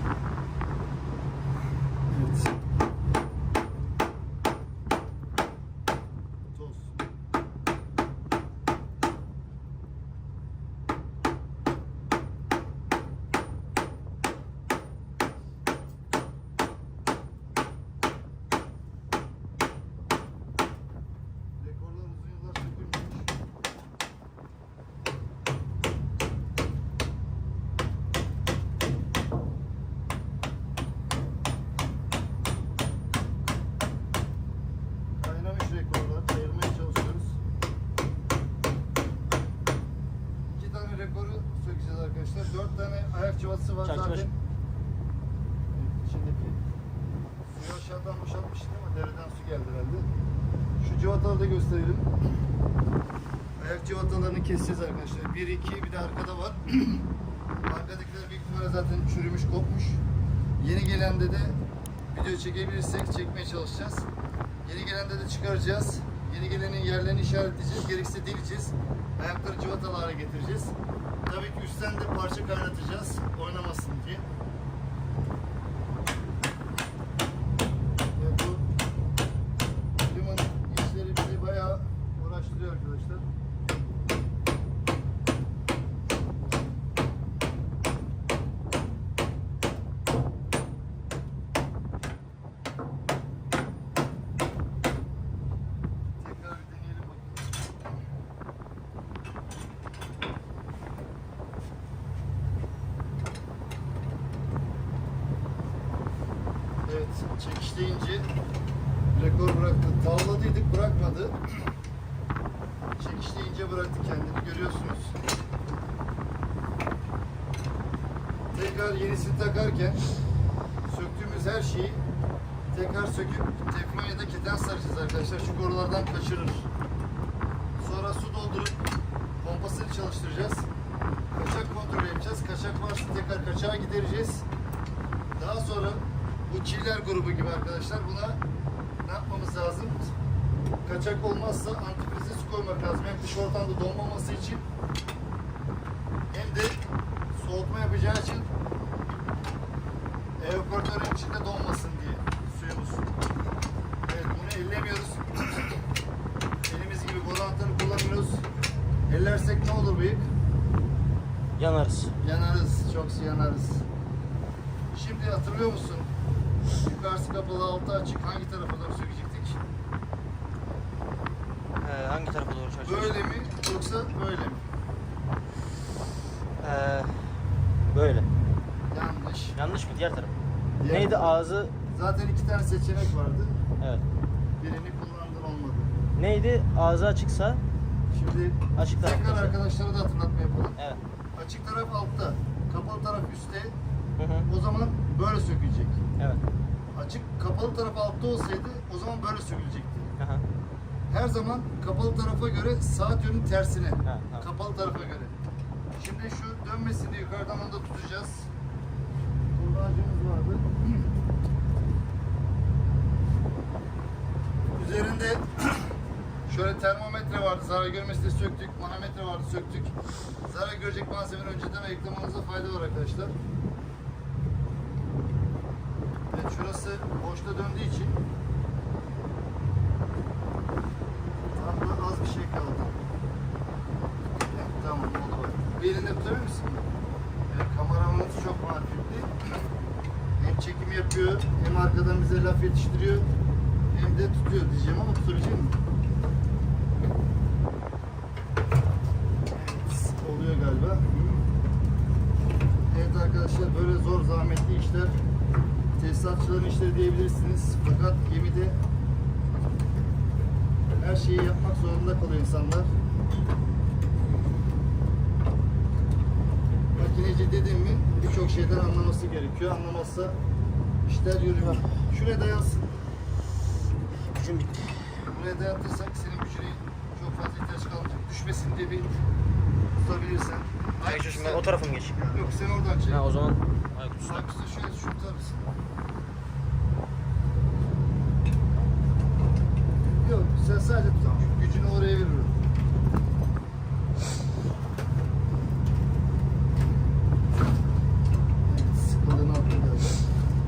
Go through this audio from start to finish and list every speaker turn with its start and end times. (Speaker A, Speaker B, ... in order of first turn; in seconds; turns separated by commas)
Speaker A: 2.1-2.5, Speaker A: 6.5-7.0, Speaker A: 21.6-23.3, Speaker A: 35.2-37.4, Speaker A: 40.5-44.4, Speaker B: 43.8-44.3, Speaker A: 45.7-46.6, Speaker A: 47.5-50.1, Speaker A: 50.8-52.1, Speaker A: 53.6-57.1, Speaker A: 57.6-60.0, Speaker A: 60.6-61.6, Speaker A: 62.1-64.0, Speaker A: 64.6-74.3, Speaker A: 78.2-78.7, Speaker A: 80.0-83.2, Speaker A: 96.2-97.6, Speaker A: 106.8-108.3, Speaker A: 109.1-111.4, Speaker A: 113.0-115.2, Speaker A: 118.5-120.0, Speaker A: 120.8-122.0, Speaker A: 122.7-126.7, Speaker A: 127.8-128.8, Speaker A: 129.4-130.7, Speaker A: 131.3-134.4, Speaker A: 135.3-138.4, Speaker A: 139.0-140.1, Speaker A: 140.8-144.6, Speaker A: 146.3-146.8, Speaker A: 147.3-148.5, Speaker A: 150.4-153.1, Speaker A: 154.1-155.8, Speaker A: 156.7-158.4, Speaker A: 159.1-160.3, Speaker B: 161.6-162.1, Speaker A: 162.2-163.8, Speaker A: 164.9-166.1, Speaker A: 166.8-169.6, Speaker B: 171.8-173.2, Speaker A: 172.8-174.6, Speaker B: 176.6-177.2, Speaker B: 177.9-178.3, Speaker A: 178.9-179.6, Speaker B: 179.6-180.3, Speaker A: 180.8-183.6, Speaker B: 180.9-181.7, Speaker A: 184.6-185.9, Speaker B: 186.2-187.6, Speaker A: 188.1-190.8, Speaker B: 188.8-189.5, Speaker A: 191.3-193.8, Speaker B: 194.2-194.5, Speaker A: 194.4-196.0, Speaker A: 196.9-200.1, Speaker B: 200.2-200.4, Speaker A: 201.1-205.3, Speaker B: 204.0-204.4, Speaker A: 206.0-208.5, Speaker A: 209.5-211.0, Speaker A: 214.7-215.9, Speaker A: 216.5-219.9, Speaker A: 220.4-223.3, Speaker A: 226.3-228.2, Speaker A: 231.5-232.9, Speaker A: 234.5-236.8, Speaker A: 237.5-239.3, Speaker A: 240.4-243.3, Speaker A: 243.9-245.8, Speaker A: 249.5-251.4, Speaker A: 252.9-255.2, Speaker A: 256.0-258.8, Speaker A: 261.0-262.9, Speaker A: 266.9-270.4, Speaker A: 271.1-272.9, Speaker B: 274.1-274.9, Speaker A: 275.3-279.1, Speaker A: 280.0-281.6, Speaker B: 281.1-282.3, Speaker A: 282.2-283.2, Speaker B: 283.1-284.4, Speaker A: 284.2-285.7, Speaker A: 290.0-292.5, Speaker A: 298.6-300.2